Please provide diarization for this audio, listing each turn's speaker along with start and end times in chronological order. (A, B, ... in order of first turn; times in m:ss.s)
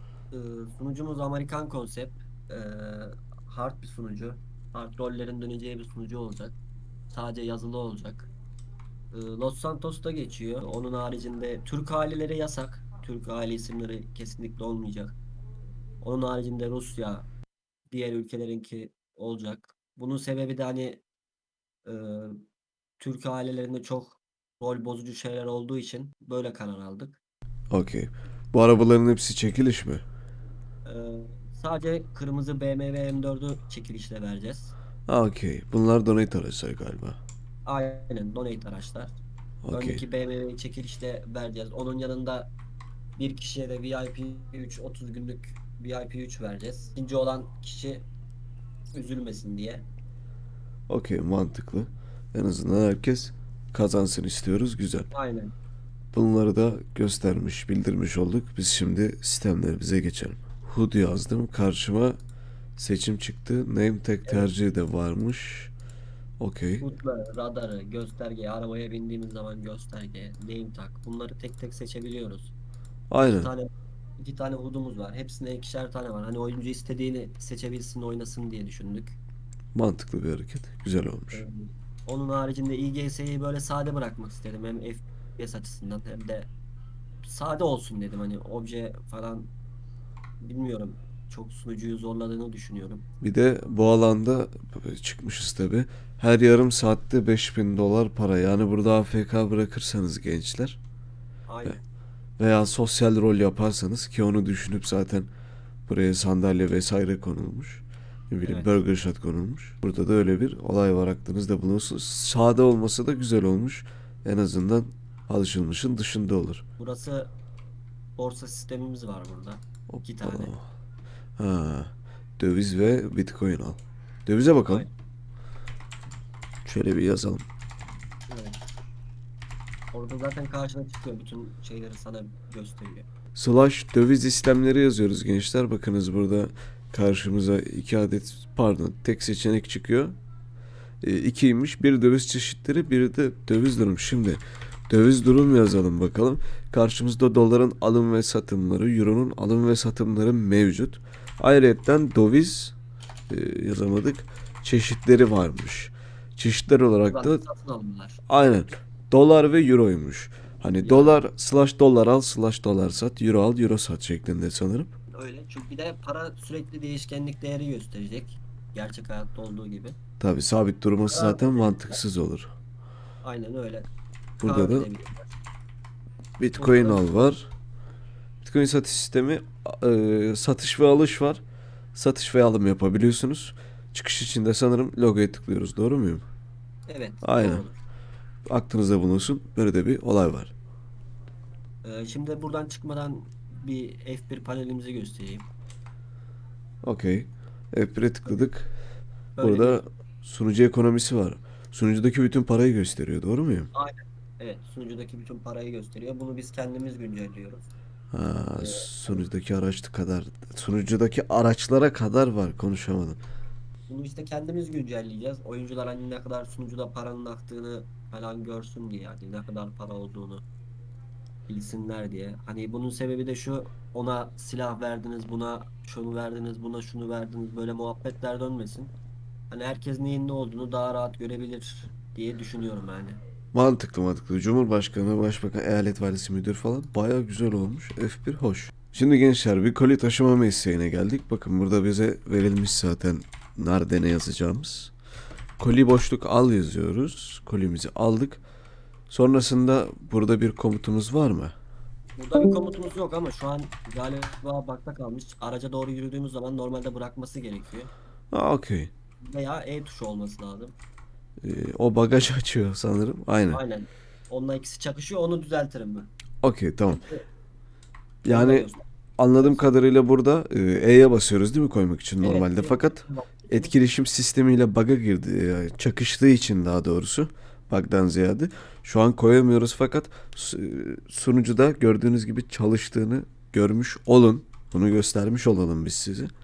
0:00.3-0:06.6 A
0:07.1-0:08.3 A
0:09.1-0:15.2 A
0:16.0-0:17.3 A
0:17.9-0:21.0 A
0:21.8-0:22.4 A
0:23.0-0:27.2 A
0:27.7-0:30.0 B
0:30.8-0:34.7 A
0:35.1-0:37.2 B
0:37.7-0:39.2 A
0:39.6-0:40.0 B
0:39.7-0:42.5 A
0:43.2-0:48.1 A
0:48.9-0:49.9 A
0:50.9-0:55.1 B
0:55.1-0:55.5 A
0:56.1-1:02.2 B
1:02.8-1:05.7 B
1:06.4-1:06.9 B
1:06.8-1:12.5 A
1:13.1-1:13.5 B
1:13.2-1:19.2 A
1:19.8-1:21.4 B
1:21.3-1:26.5 A
1:27.2-1:29.5 A
1:30.4-1:33.1 A
1:33.2-1:40.8 B
1:41.5-1:41.8 A
1:42.4-1:45.3 B
1:45.9-1:56.6 B
1:48.4-1:48.8 A
1:56.8-1:57.3 A
1:58.2-2:00.5 A
1:59.9-2:00.7 B
2:01.4-2:04.9 B
2:04.6-2:04.9 A
2:06.6-2:07.4 B
2:08.3-2:08.7 A
2:09.9-2:13.1 A
2:13.4-2:20.2 B
2:21.0-2:32.8 B
2:33.3-2:37.4 B
2:37.1-2:38.2 A
2:38.3-2:45.0 B
2:40.8-2:41.2 A
2:45.1-2:50.0 A
2:50.2-2:52.5 B
2:51.1-2:52.0 A
2:53.2-2:53.9 A
2:54.4-2:54.9 B
2:54.4-2:55.3 A
2:56.4-2:57.5 B
2:56.6-2:57.2 A
2:58.4-3:01.4 B
3:02.0-3:06.2 B
3:06.9-3:07.8 A
3:07.2-3:07.6 B
3:08.5-3:10.5 B
3:11.8-3:15.5 A
3:16.8-3:18.7 B
3:19.4-3:19.8 A
3:19.4-3:23.7 B
3:23.7-3:27.7 A
3:28.1-3:33.2 B
3:28.6-3:29.2 A
3:33.9-3:40.4 A
3:41.5-3:48.9 A
3:49.5-3:53.2 A
3:53.5-4:04.9 B
4:05.6-4:08.4 B
4:09.1-4:11.5 B
4:12.2-4:17.9 A
4:18.3-4:18.9 B
4:19.2-4:20.8 A
4:21.4-4:23.6 B
4:23.5-4:26.1 A
4:26.4-4:27.1 B
4:26.9-4:27.2 A
4:28.2-4:46.3 B
4:28.3-4:29.8 A
4:32.2-4:33.7 A